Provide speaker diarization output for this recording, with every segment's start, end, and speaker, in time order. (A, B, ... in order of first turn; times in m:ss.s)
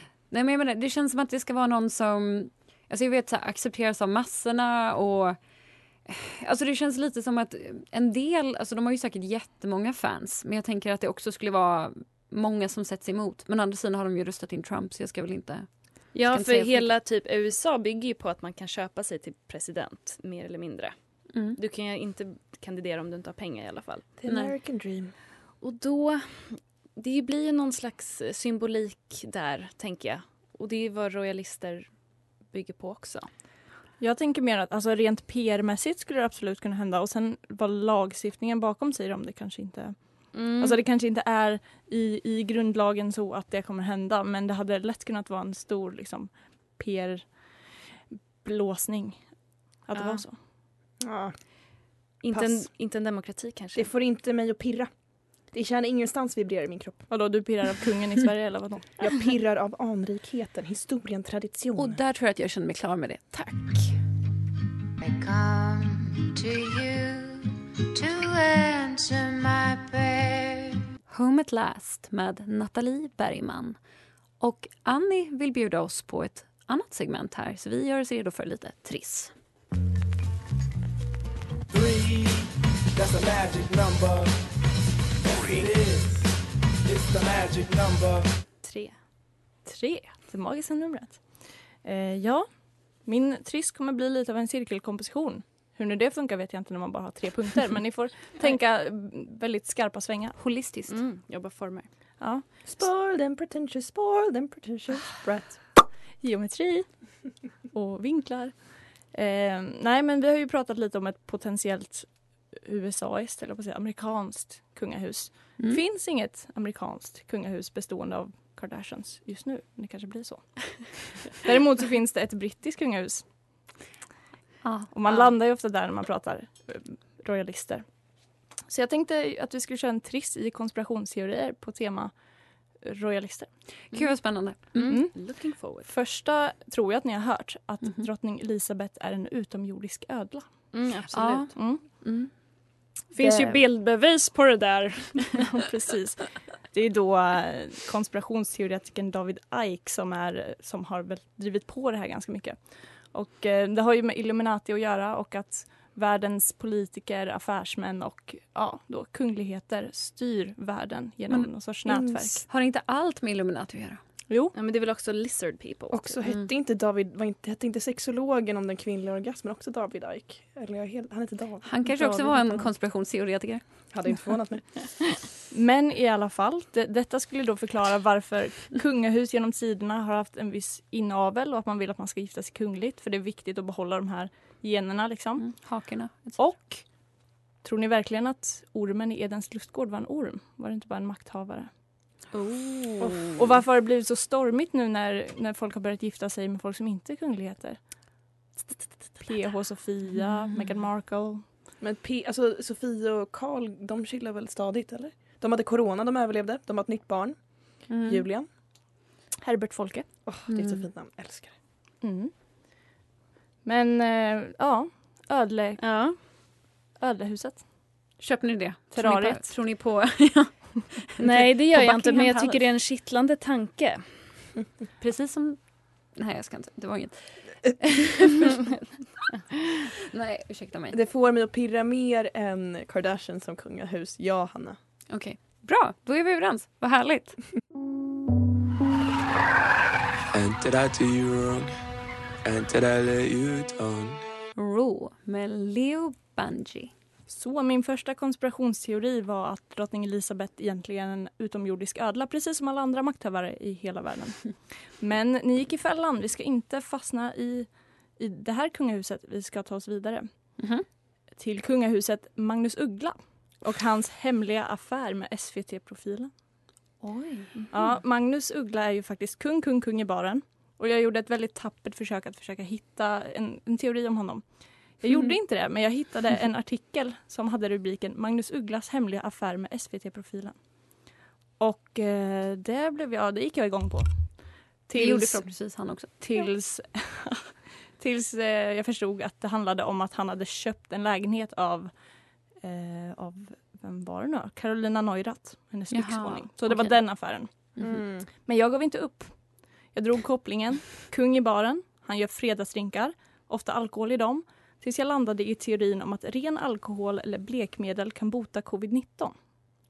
0:00.3-0:05.4 A
0:06.0-0:17.0 A
0:16.1-0:24.1 B
0:21.3-0:21.6 A
0:24.2-0:25.2 C
0:24.3-0:24.6 A
0:25.6-0:33.3 B
0:34.0-0:50.4 D
0:40.3-0:40.8 B
0:49.9-0:50.2 B
0:51.0-0:51.4 C
0:52.2-0:53.9 B
0:52.3-0:52.7 C
0:53.8-0:57.1 C
0:57.1-0:59.0 D
0:59.0-1:02.0 C
1:01.8-1:03.9 A
1:05.0-1:07.3 E
1:08.0-1:10.5 E
1:11.1-1:13.8 A
1:14.4-1:19.3 A
1:21.7-1:24.3 F
1:25.4-1:26.2 F
1:26.9-1:28.3 F
1:28.6-1:29.0 B
1:29.6-1:40.4 D
1:40.4-1:41.0 A
1:40.9-1:41.9 B
1:42.2-1:42.6 D
1:42.6-1:45.9 C
1:46.2-2:03.3 D
2:04.6-2:04.9 A
2:04.9-2:07.9 D
2:08.6-2:13.8 D
2:13.9-2:15.0 A
2:14.6-2:15.9 B
2:14.8-2:20.9 D
2:20.7-2:21.6 B
2:21.1-2:22.3 A
2:21.5-2:22.0 D
2:23.1-2:25.4 B
2:25.4-2:42.4 D
2:41.9-2:42.4 C
2:42.5-2:44.0 A
2:44.3-2:44.5 D
2:44.5-2:46.2 B
2:45.9-2:52.6 C
2:51.6-2:54.2 A
2:53.9-2:55.1 C
2:55.5-3:11.7 D
3:05.4-3:06.7 A
3:12.3-3:13.4 B
3:13.2-3:21.5 D
3:20.2-3:20.7 A
3:21.8-3:28.5 C
3:27.9-3:28.2 A
3:29.4-3:30.1 D
3:30.2-3:31.6 C
3:30.5-3:30.9 A
3:32.0-3:32.9 D
3:33.6-3:37.7 D
3:35.8-3:36.2 B
3:38.2-3:42.6 A
3:38.9-3:39.6 D
3:41.2-3:44.5 B
3:45.0-3:48.6 A
3:50.1-3:51.0 A
3:50.9-3:54.8 C
3:55.1-3:57.4 A
4:00.3-4:01.7 F
4:02.4-4:04.2 F
4:04.6-4:06.9 A
4:07.3-4:20.4 D
4:20.6-4:20.8 A
4:21.3-4:26.3 D
4:27.0-4:27.5 A
4:27.7-4:57.8 D
4:44.9-4:46.2 A
4:55.9-4:58.0 A
4:57.8-4:58.3 C
4:58.4-5:09.4 D